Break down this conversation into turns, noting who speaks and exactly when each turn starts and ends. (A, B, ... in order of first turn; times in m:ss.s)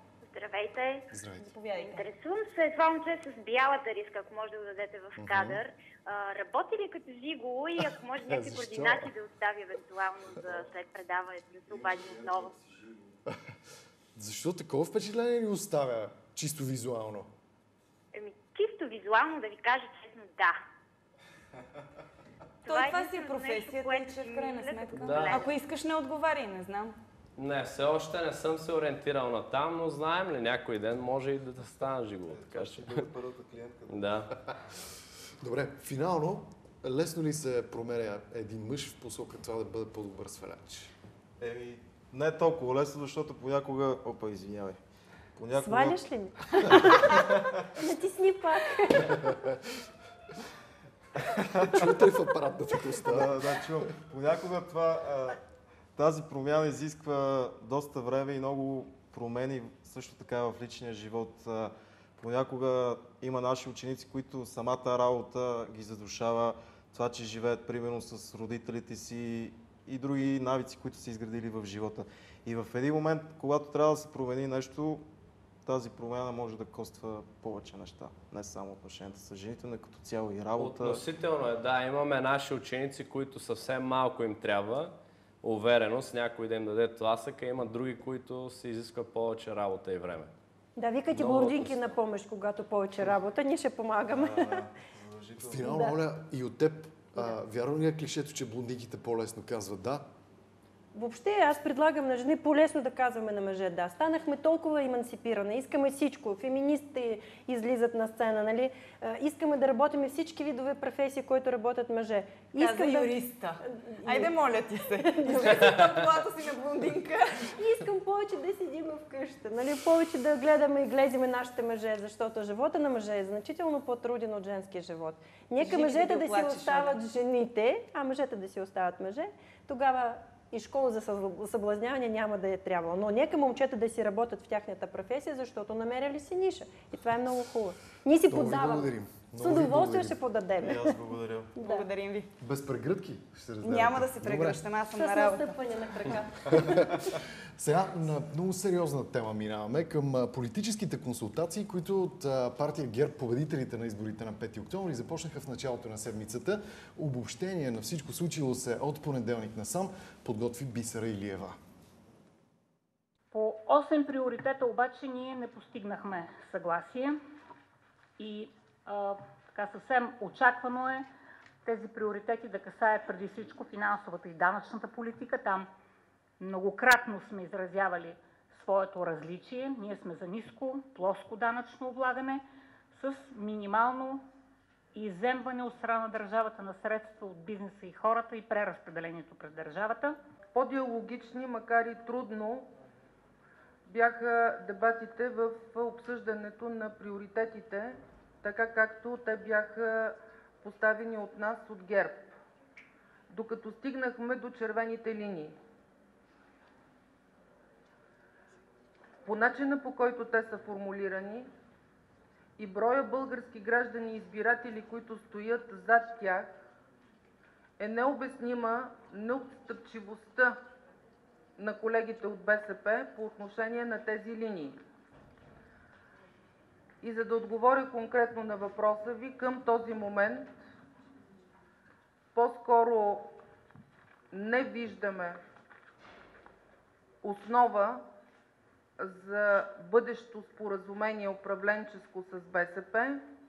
0:00.2-0:01.1 A
0:01.1-0:01.5 B
0:01.4-0:02.0 C
0:01.8-0:12.6 A
0:05.2-0:05.6 B
0:08.2-0:09.1 B
0:14.2-0:17.3 B
0:18.1-0:20.6 A
0:22.6-0:25.5 A
0:22.7-0:26.9 C
0:24.9-0:25.4 D
0:27.4-0:33.0 D
0:32.3-0:34.0 E
0:33.9-0:34.3 D
0:35.4-0:40.9 B
0:41.4-0:44.8 E
0:45.4-0:46.0 E
0:45.6-0:49.3 F
0:49.1-0:49.5 B
0:51.4-0:51.9 E
0:51.4-0:53.4 B
0:53.0-0:55.4 E
0:56.0-1:15.0 E
1:15.6-1:21.0 E
1:20.6-1:30.3 D
1:30.8-1:34.6 F
1:31.1-1:31.8 D
1:34.1-1:35.8 E
1:35.4-1:40.1 B
1:35.6-1:35.9 F
1:40.9-1:53.1 F
1:52.6-1:57.5 C
1:53.7-1:54.3 F
1:55.0-1:55.7 F
1:57.5-2:20.9 F
2:05.6-2:07.0 C
2:18.3-2:20.2 B
2:20.6-2:21.5 E
2:21.5-2:21.8 F
2:21.6-2:22.3 C
2:22.4-2:24.6 B
2:23.6-2:25.5 C
2:25.0-2:26.8 F
2:26.6-2:26.8 B
2:27.6-2:41.6 B
2:43.3-2:47.2 G
2:48.2-2:51.0 G
2:51.6-2:55.7 G
2:56.4-3:04.2 G
3:04.9-3:10.2 G
3:10.5-3:12.7 H
3:13.8-3:22.3 H
3:23.3-3:25.5 H
3:29.2-3:31.5 H
3:32.6-3:36.5 H
3:37.8-3:40.6 H
3:41.6-3:44.8 H
3:47.0-3:50.5 H
3:52.3-3:53.3 H
3:54.3-3:55.4 H
3:57.2-3:58.0 H
3:59.0-4:03.2 H